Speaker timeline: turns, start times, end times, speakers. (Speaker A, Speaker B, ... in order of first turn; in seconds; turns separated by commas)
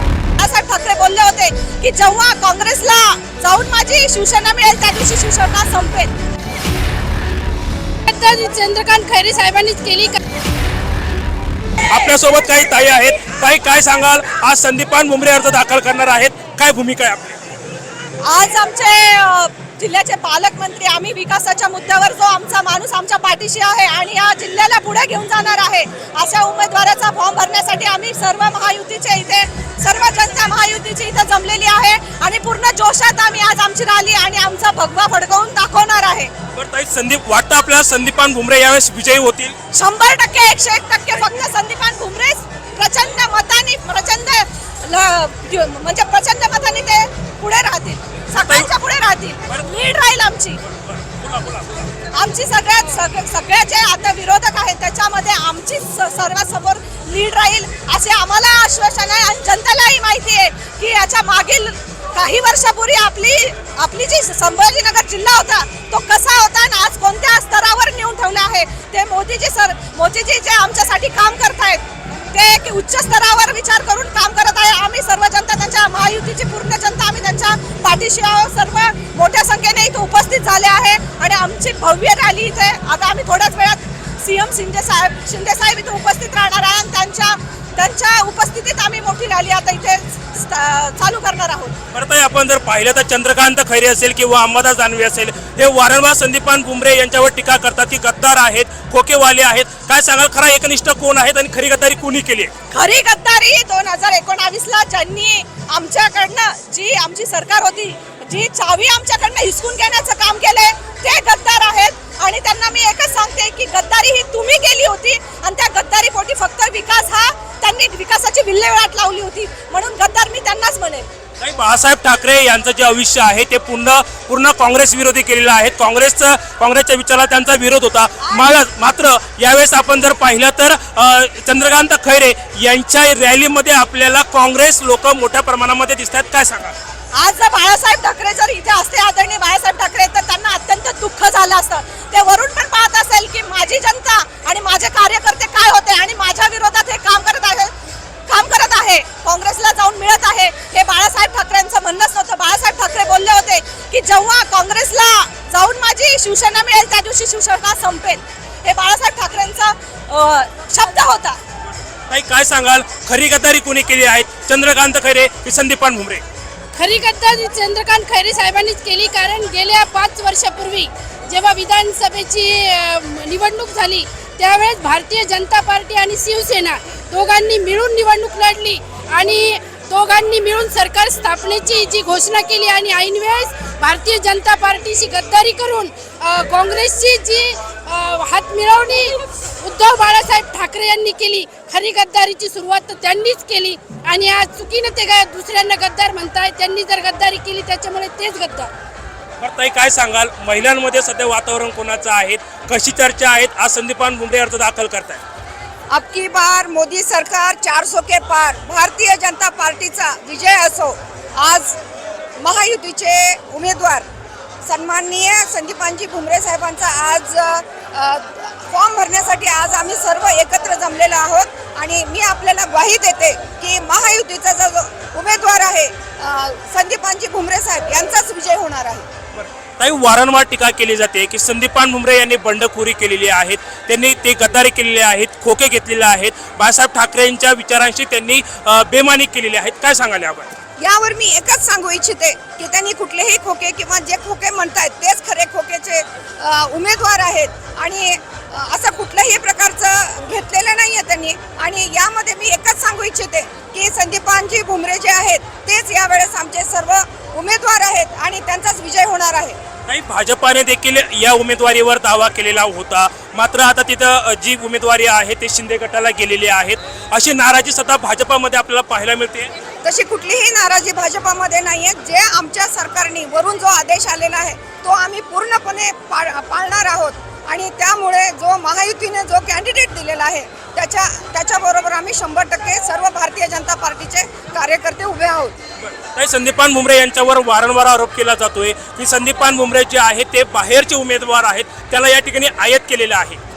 Speaker A: 0.4-6.1, Speaker B: 8.1-10.2, Speaker C: 11.9-17.4, Speaker A: 18.2-36.3, Speaker C: 36.5-39.6, Speaker A: 39.7-50.6, Speaker C: 50.7-51.9, Speaker A: 52.1-91.7, Speaker C: 91.9-102.5, Speaker A: 102.7-121.1, Speaker C: 121.4-136.7, Speaker A: 137.1-147.7, Speaker A: 148.3-161.4, Speaker C: 162.1-166.2, Speaker B: 166.8-198.7, Speaker C: 199.4-205.2, Speaker D: 205.9-211.8, Speaker D: 212.4-214.1, Speaker D: 214.7-229.0, Speaker C: 229.3-240.5, Speaker D: 240.8-259.6, Speaker C: 259.9-269.5, Speaker D: 269.8-285.6, Speaker C: 285.8-293.4